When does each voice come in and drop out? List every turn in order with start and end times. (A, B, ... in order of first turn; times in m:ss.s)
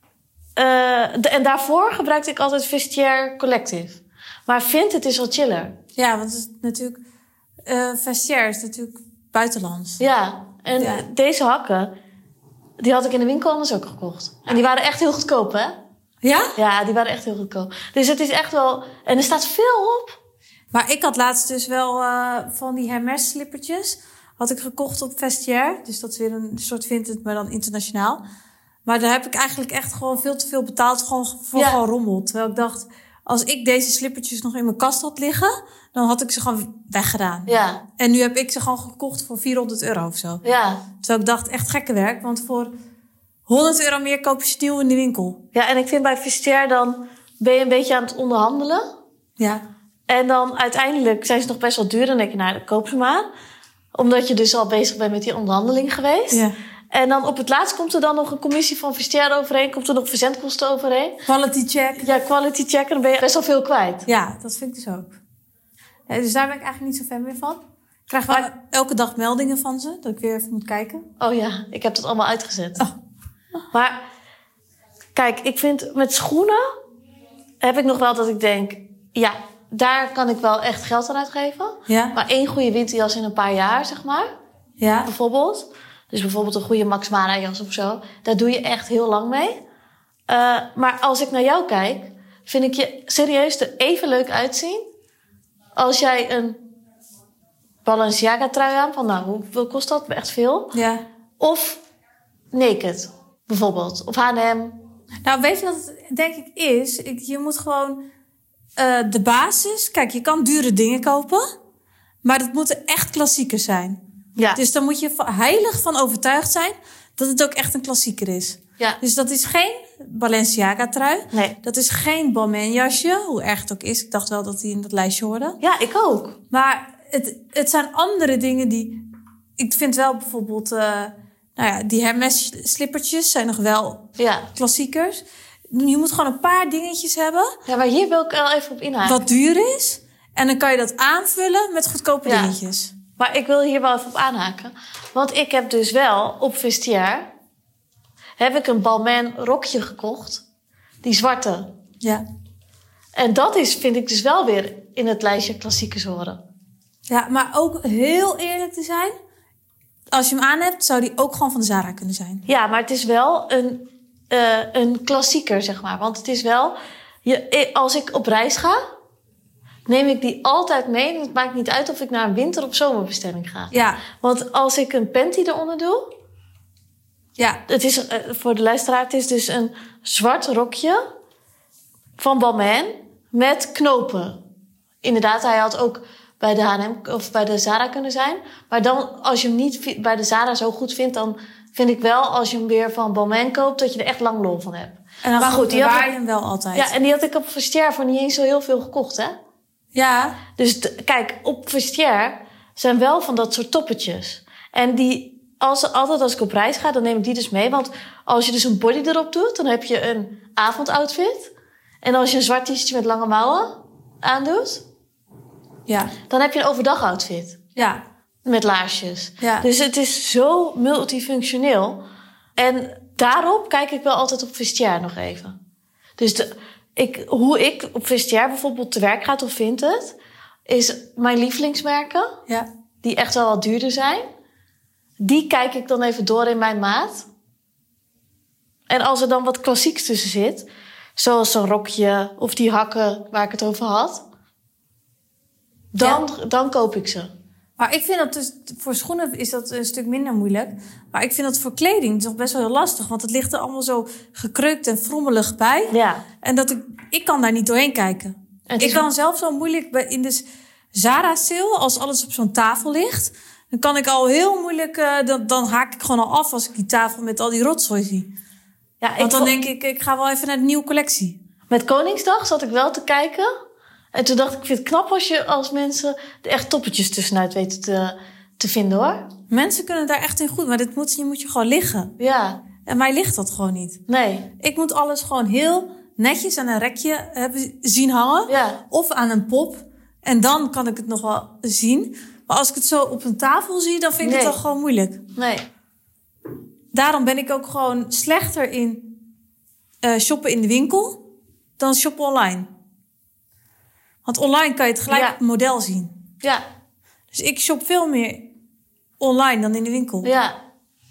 0:00.6-0:05.8 A
0:06.0-0:07.0 B
0:07.6-0:10.0 B
0:10.0-0:11.9 A
0:10.8-0:11.0 B
0:12.8-0:15.8 A
0:16.2-0:16.5 B
0:16.6-0:20.2 A
0:20.7-0:28.2 B
0:28.8-0:40.4 B
0:37.5-0:37.8 A
0:40.4-0:40.8 A
0:41.0-0:42.7 B
0:43.5-0:45.4 B
0:45.5-0:48.8 A
0:50.1-0:53.3 A
0:53.9-1:01.2 A
1:01.3-1:02.0 B
1:02.0-1:04.0 A
1:04.1-1:05.1 B
1:06.1-1:11.0 B
1:11.2-1:12.8 A
1:13.7-1:14.0 A
1:15.1-1:16.6 A
1:17.6-1:24.3 A
1:21.9-1:22.1 B
1:24.8-1:25.1 B
1:25.0-1:29.6 A
1:30.3-1:34.8 A
1:35.8-1:36.6 A
1:37.8-1:40.7 A
1:40.7-1:41.0 B
1:41.4-1:41.8 A
1:42.5-1:44.8 A
1:45.2-1:48.0 B
1:48.8-1:51.4 B
1:52.2-1:54.0 B
1:54.5-2:05.6 B
2:05.6-2:06.4 A
2:06.5-2:09.0 B
2:09.6-2:17.5 B
2:14.2-2:14.5 A
2:17.7-2:19.2 A
2:19.0-2:22.9 B
2:22.2-2:22.5 A
2:23.2-2:27.3 A
2:28.4-2:30.4 A
2:31.0-2:31.7 A
2:33.1-2:36.4 A
2:37.1-2:39.1 B
2:40.1-2:42.4 B
2:42.5-2:48.8 A
2:49.9-2:56.0 A
2:53.7-2:54.0 B
2:57.7-3:01.0 A
3:02.2-3:04.4 A
3:05.0-3:16.1 A
3:15.2-3:16.9 B
3:16.7-3:19.4 A
3:19.9-3:20.4 B
3:20.6-3:31.5 A
3:32.0-3:34.8 A
3:35.9-3:36.1 B
3:36.3-3:37.6 A
3:37.8-3:38.0 B
3:38.4-3:42.0 A
3:39.4-3:39.6 B
3:42.6-3:45.6 A
3:46.2-3:50.2 A
3:50.7-3:52.3 A
3:53.0-3:54.2 A
3:55.2-3:57.3 A
3:58.9-4:04.2 A
4:05.9-4:07.3 A
4:07.8-4:28.3 B
4:15.9-4:16.2 A
4:18.7-4:19.0 A
4:29.0-4:29.5 A
4:29.2-4:31.4 B
4:31.7-4:33.5 A
4:34.1-4:39.3 A
4:39.5-4:42.1 B
4:42.2-4:42.6 A
4:42.8-4:44.0 B
4:44.1-4:44.5 A
4:44.6-4:55.2 B
4:48.5-4:48.8 A
4:54.2-4:54.6 A
4:55.4-4:55.6 A
4:56.9-4:59.1 B
5:00.0-5:01.2 B
5:01.8-5:02.7 B
5:04.2-5:06.1 B
5:05.1-5:05.4 A
5:07.3-5:08.4 B
5:09.2-5:10.3 B
5:10.2-5:10.6 A